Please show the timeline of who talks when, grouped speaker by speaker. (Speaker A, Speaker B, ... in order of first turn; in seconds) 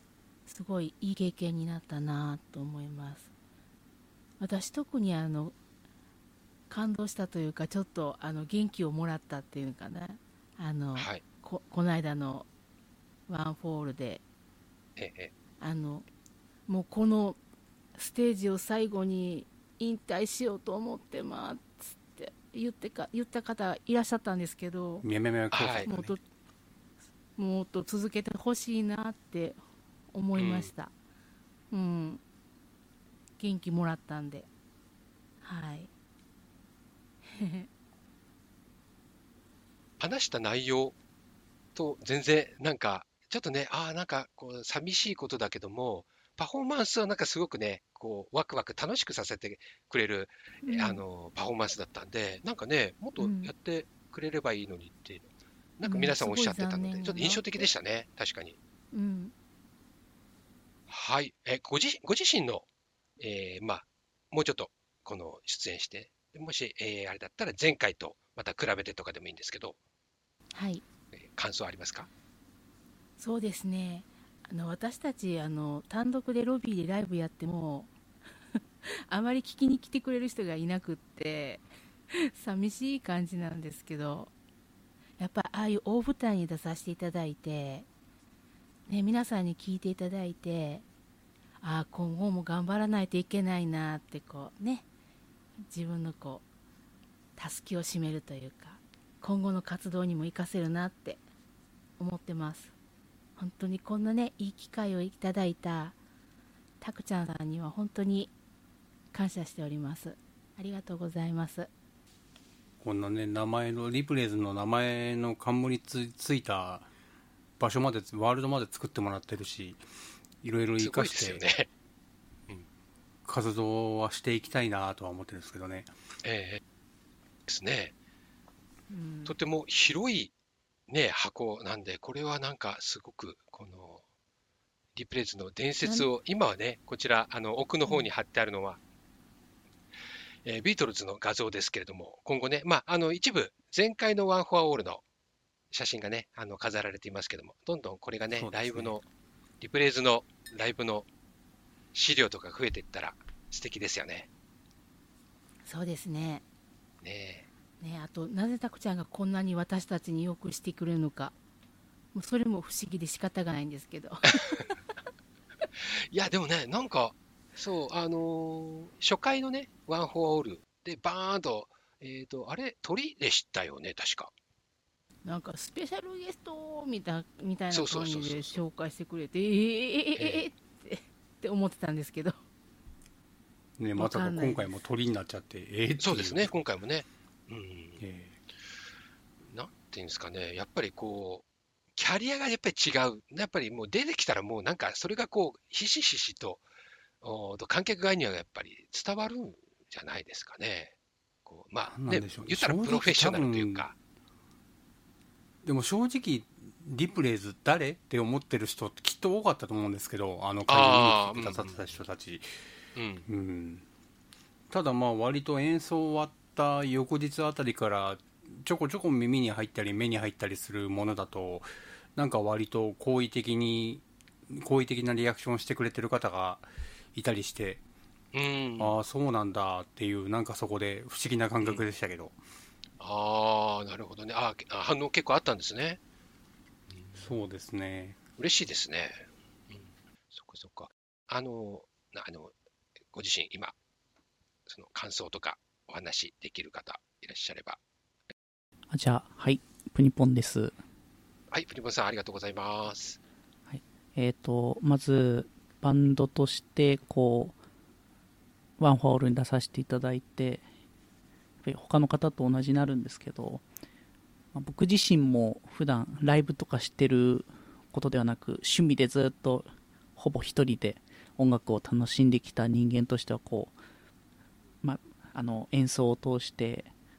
Speaker A: 0.5-3.3, 4.4-5.5, 6.7-12.5, 13.3-14.2, 15.6-16.1, 16.7-17.4, 17.9-25.0, 25.9-26.2, 27.4-29.6, 30.1-30.9, 31.7-32.2, 33.4-34.5, 35.4-35.9, 37.3-37.7, 50.6-51.0, 53.2-53.5, 55.8-57.7, 58.9-59.3, 70.5-70.8, 73.2-77.9, 78.5-84.3, 85.2-87.9, 88.9-90.8, 91.6-94.8, 95.7-96.4, 97.3-101.2, 102.0-102.7, 103.4-106.0, 106.8-108.3, 109.1-111.7, 128.9-129.3, 135.8-136.1, 155.7-156.4, 157.8-161.3, 162.1-164.6, 175.2-182.4, 184.0-184.7
Speaker B: 10.9-11.2, 15.0-15.3, 25.5-25.9, 30.4-30.7, 40.0-41.0, 41.7-55.3, 55.8-58.6, 60.9-62.6, 63.2-69.8, 71.1-72.1, 120.8-121.7, 126.2-126.6, 127.5-127.9, 129.2-130.3, 130.9-134.0, 134.9-138.8, 140.4-145.0, 145.7-149.0, 149.6-151.1, 151.9-154.3, 157.0-157.5, 164.3-164.6, 166.1-174.3, 177.7-178.6, 180.2-180.4, 186.0-188.0, 189.5-196.6, 197.2-200.9, 201.4-203.9, 210.7-211.9, 212.9-213.2, 228.3-229.0, 233.0-236.0, 236.9-237.2, 238.4-242.5, 243.1-243.7, 244.7-247.8, 251.5-253.2
Speaker C: 25.0-26.1, 112.8-116.9, 117.6-119.8, 120.4-121.4, 123.3-125.9, 148.3-148.9, 183.8-186.5, 188.0-188.4, 201.9-203.8, 205.6-212.5, 213.3-213.8, 214.7-227.8, 228.8-232.4, 237.2-238.2
Speaker D: 248.9-250.7, 253.7-257.6, 258.8-260.6, 261.6-263.6, 264.5-273.8, 274.8-276.9